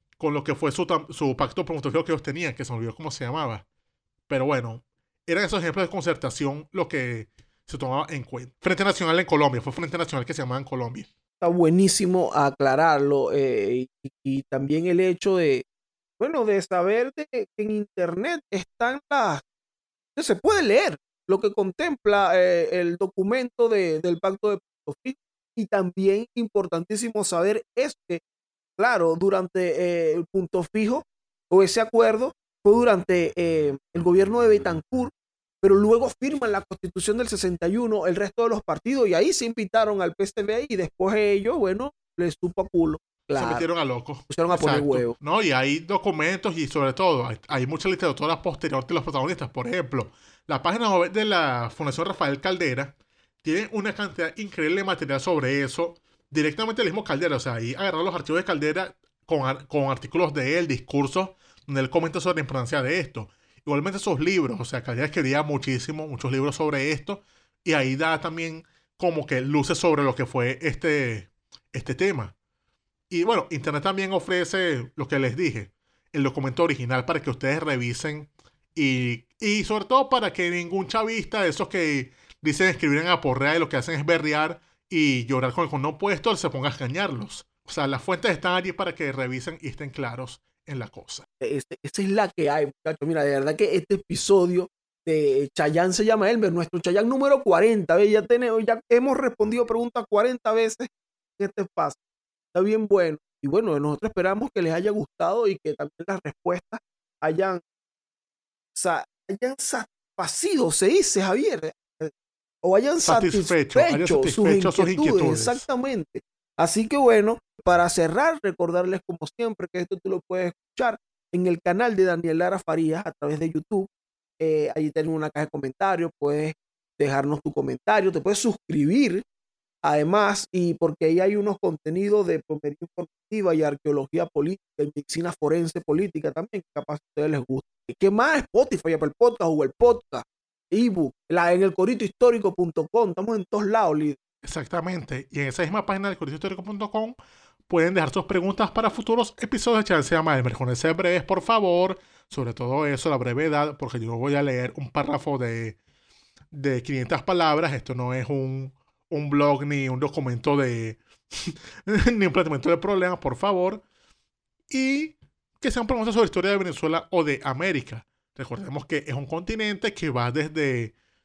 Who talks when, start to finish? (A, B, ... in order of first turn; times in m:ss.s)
0:00.2-0:03.6 A
0:04.3-0:11.1 A
0:11.4-0:15.6 B
0:16.2-0:19.4 B
0:20.2-0:28.2 B
0:28.8-0:43.7 B
0:43.3-1:12.3 A
0:44.3-0:45.1 B
1:13.1-1:31.2 A
1:31.4-1:42.0 B
1:42.5-1:47.6 B
1:48.7-2:03.9 B
1:53.0-1:55.6 A
2:04.4-2:09.2 B
2:09.8-2:24.2 B
2:24.4-2:27.2 A
2:27.7-2:35.8 A
2:36.5-2:43.8 A
2:44.7-2:50.9 A